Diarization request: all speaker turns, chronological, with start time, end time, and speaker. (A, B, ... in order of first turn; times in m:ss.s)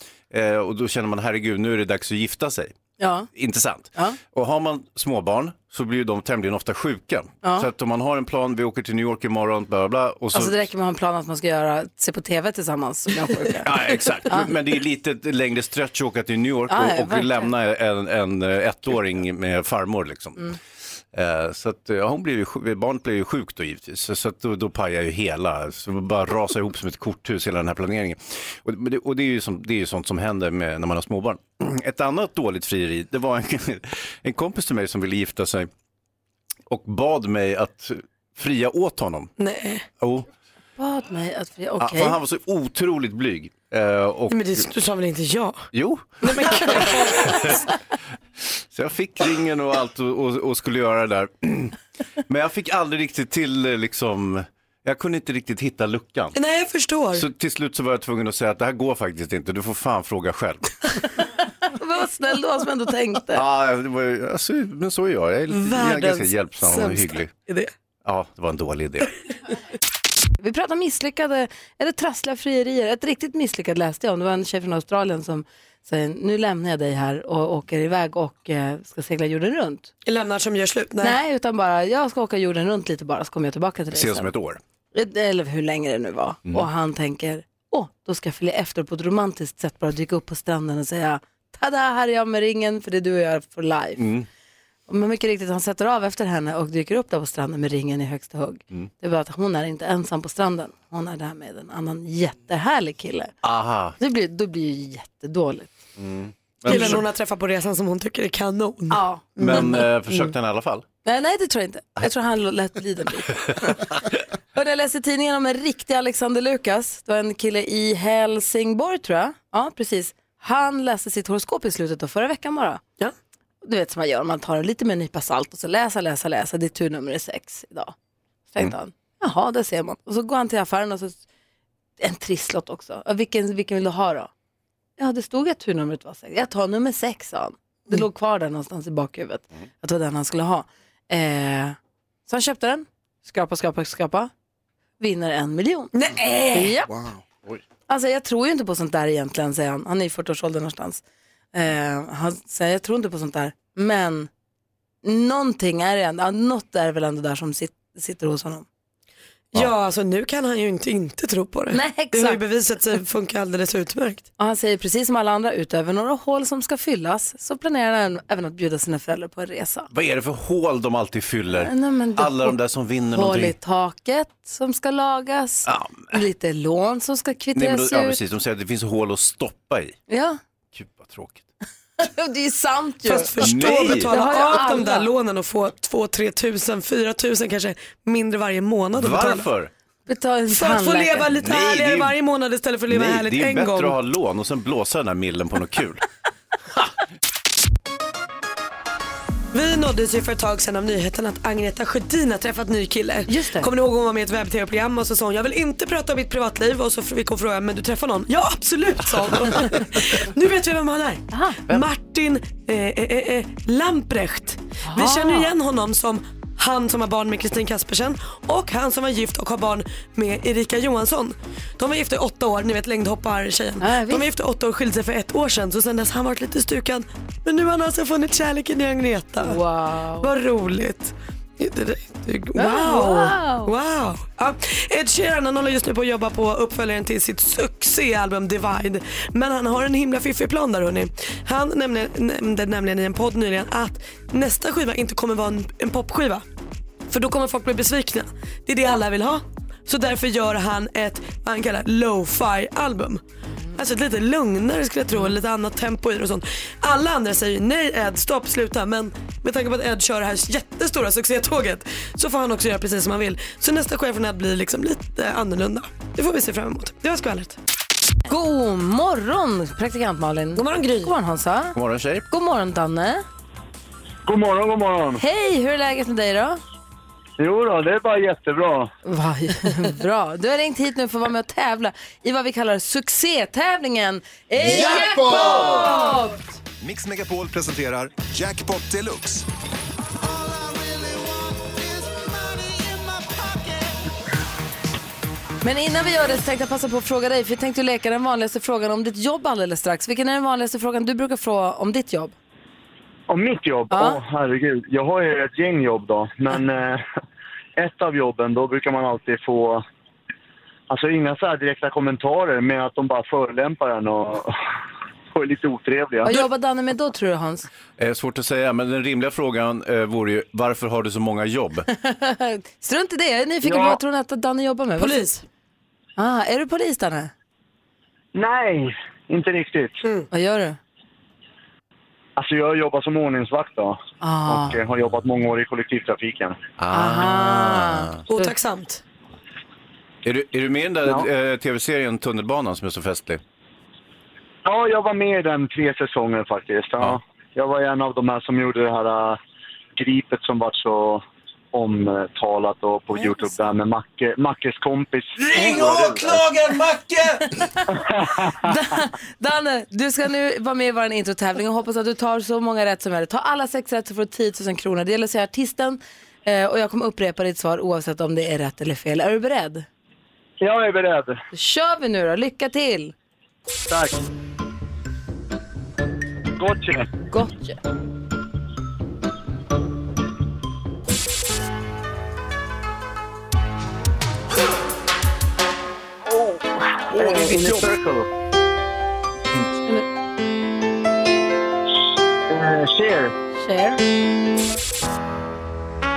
0:00.3-0:02.7 A
0:03.0-0:03.3 B
0:03.3-0:10.6 A
0:07.4-0:07.7 B
0:10.3-0:13.7 B
0:13.6-0:20.5 A
0:14.2-0:14.5 B
0:16.7-0:17.5 B
0:21.1-0:35.7 A
0:36.7-0:39.3 A
0:39.4-0:39.8 C
0:40.0-0:40.3 A
0:40.8-0:42.2 B
0:41.8-0:44.6 A
0:44.3-0:45.7 C
0:45.7-0:47.7 A
0:46.2-0:47.6 C
0:48.4-0:51.8 A
0:52.3-0:56.4 A
0:56.3-0:57.2 C
0:57.1-1:00.7 A
1:01.7-1:03.4 B
1:03.3-1:07.3 A
1:05.5-1:07.7 C
1:08.0-1:09.1 A
1:10.4-1:19.9 B
1:20.0-1:21.2 C
1:21.0-1:24.3 B
1:23.9-1:24.6 A
1:24.9-1:34.0 B
1:34.0-1:34.3 A
1:34.9-1:43.3 B
1:43.4-1:44.0 A
1:44.0-1:45.7 B
1:46.0-1:47.0 A
1:46.6-1:49.8 C
1:46.7-1:47.0 B
1:48.9-1:49.6 B
1:49.4-1:50.8 A
1:51.0-1:53.9 B
1:54.5-2:02.8 B
2:03.6-2:07.9 B
2:08.5-2:11.2 B
2:12.0-2:14.3 B
2:15.0-2:24.3 B
2:25.0-2:25.9 B
2:25.9-2:26.8 C
2:26.5-2:26.9 B
2:27.9-2:31.0 B
2:31.5-2:34.3 B
2:35.0-2:38.6 B
2:39.5-2:44.2 C
2:41.7-2:42.4 B
2:44.4-2:49.9 B
2:49.9-2:53.6 A
2:51.5-2:52.6 B
2:53.1-2:58.2 B
2:55.6-2:56.2 A
2:57.5-3:00.0 A
3:00.1-3:00.4 B
3:00.7-3:01.4 A
3:02.0-3:05.1 B
3:03.0-3:09.5 C
3:03.4-3:04.2 A
3:08.9-3:09.7 A
3:10.1-3:11.3 B
3:10.5-3:14.0 C
3:11.3-3:12.2 A
3:12.9-3:16.0 A
3:19.5-3:49.6 C
3:23.3-3:23.7 B
3:31.3-3:31.6 B
3:34.8-3:35.5 B
3:43.8-3:44.3 B
3:49.4-3:50.3 B
3:50.2-4:06.4 C
3:52.6-3:53.7 B
4:07.1-4:13.2 C
4:13.8-4:27.6 C
4:28.3-4:31.8 B
4:30.6-4:31.1 C
4:31.7-4:32.3 A
4:32.3-4:33.2 B
4:34.3-4:35.2 D
4:35.2-4:36.6 B
4:37.4-4:38.9 D
4:39.0-4:46.4 B
4:44.6-4:46.2 E
4:46.8-4:49.4 E
4:50.2-4:54.0 E
4:55.6-5:02.3 B
5:03.3-5:07.0 D
5:03.9-5:04.2 B
5:07.8-5:09.8 D
5:10.9-5:14.5 D
5:15.3-5:16.3 D
5:16.2-5:17.7 B
5:18.0-5:21.9 A
5:21.9-5:25.2 B
5:23.6-5:24.0 D
5:25.0-5:25.4 C
5:26.2-5:27.3 B
5:28.3-5:30.0 D
5:30.3-5:30.8 B
5:32.4-5:36.6 D
5:34.2-5:34.8 B
5:36.8-5:38.2 A
5:36.9-5:38.5 B
5:38.3-5:39.0 C
5:40.2-5:43.4 A
5:44.6-5:49.4 D
5:50.0-5:56.4 D
5:53.1-5:53.5 B
5:55.4-5:57.4 A
5:57.5-5:57.8 B
5:57.9-5:58.7 D
5:58.6-6:09.8 B
6:10.6-6:11.4 D
6:11.5-6:13.1 B
6:13.9-6:14.2 D
6:16.6-6:17.1 D
6:17.3-6:17.8 B
6:26.3-6:28.3 D
6:27.3-6:27.8 A
6:32.5-6:33.3 D
6:33.5-6:34.0 B